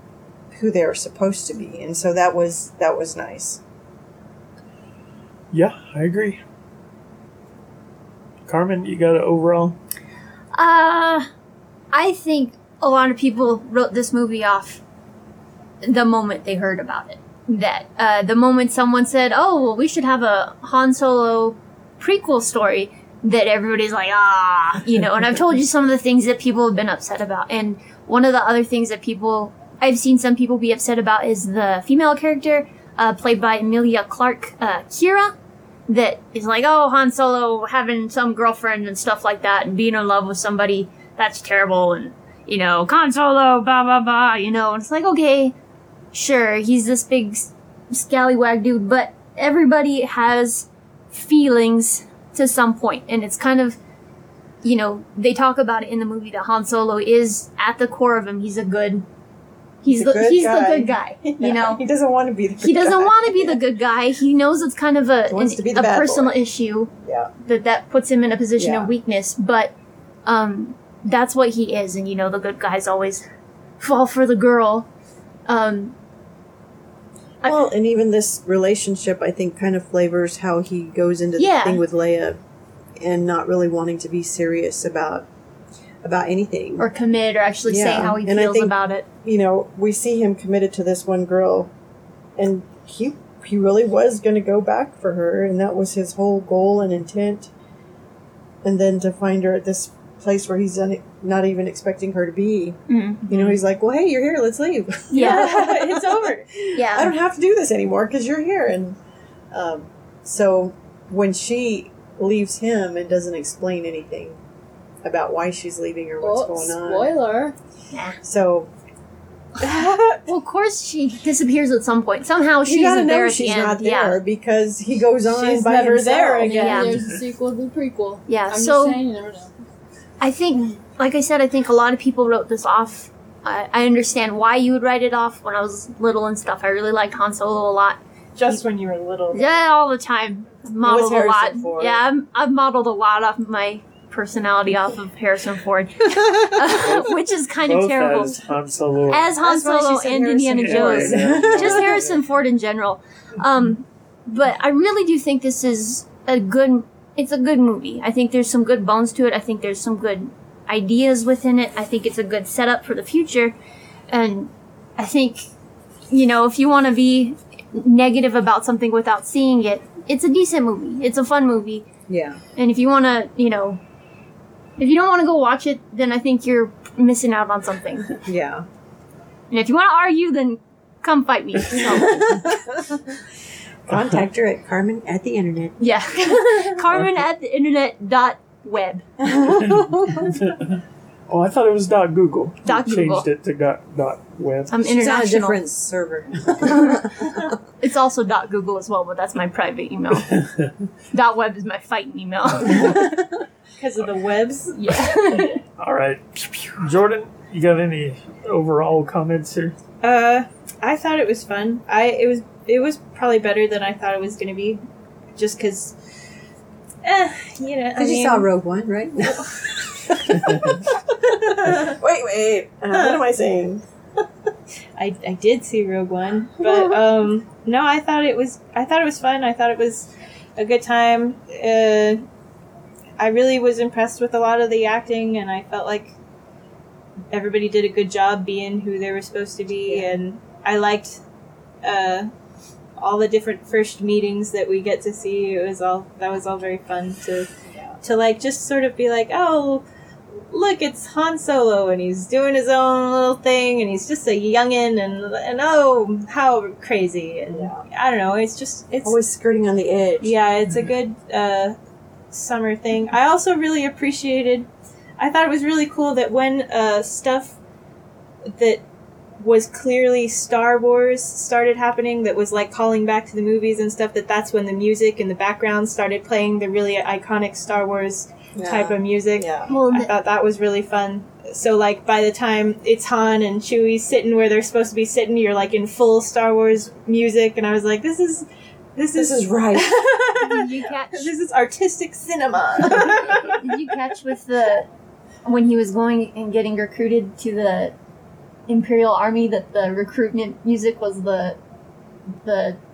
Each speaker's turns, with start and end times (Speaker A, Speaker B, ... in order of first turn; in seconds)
Speaker A: 0.5-3.6, 59.9-63.6, 65.3-66.4, 67.0-67.3, 68.6-68.9, 77.4-82.4, 83.0-85.3, 86.0-86.9, 87.7-91.7, 92.4-97.5, 98.6-109.0, 109.5-114.4, 115.0-117.2, 118.1-118.7, 122.6-126.8, 140.8-142.0, 149.4-152.0, 172.1-172.4, 178.2-178.7, 181.9-182.8, 183.9-186.4, 189.2-190.3, 194.9-197.5, 218.0-223.8, 226.6-226.9, 239.8-240.1, 247.6-248.0, 257.5-257.8, 259.0-260.9, 278.6-279.7, 289.1-290.0
Speaker B: 5.5-6.4, 8.5-9.8, 147.6-149.4, 150.6-152.2, 183.9-184.2, 190.2-190.7, 191.3-194.9, 200.2-200.7, 205.8-209.8
Speaker C: 10.5-11.3, 11.9-14.8, 15.8-35.3, 35.9-45.5, 46.1-53.8, 54.6-59.0, 59.8-61.8, 62.6-66.9, 67.4-69.7, 70.2-73.2, 73.8-74.9, 75.5-75.9, 81.4-81.8, 86.8-89.0, 102.9-103.5, 105.1-105.6, 106.8-107.1, 120.2-124.2, 126.5-126.9, 128.3-129.0, 130.2-138.6, 139.3-148.5, 149.1-163.5, 164.1-165.5, 166.1-171.8, 172.6-173.8, 174.8-178.1, 179.5-182.5, 185.8-189.0, 192.6-193.3, 194.7-195.6, 197.8-200.3, 201.1-203.1, 204.8-205.6, 279.7-280.1, 290.4-291.3, 293.4-294.9, 295.4-297.9, 298.7-301.6, 302.4-302.8
Speaker D: 105.1-106.5, 119.6-120.2, 125.2-126.8, 138.3-139.6, 203.8-204.8, 210.0-214.8, 215.3-215.9, 217.0-218.5, 222.9-223.2, 225.0-232.2, 233.2-236.1, 237.3-241.2, 241.8-242.3, 243.0-249.8, 250.5-259.1, 260.2-261.8, 262.3-267.6, 268.5-268.8, 269.4-293.6
Speaker E: 116.2-117.5, 126.4-129.5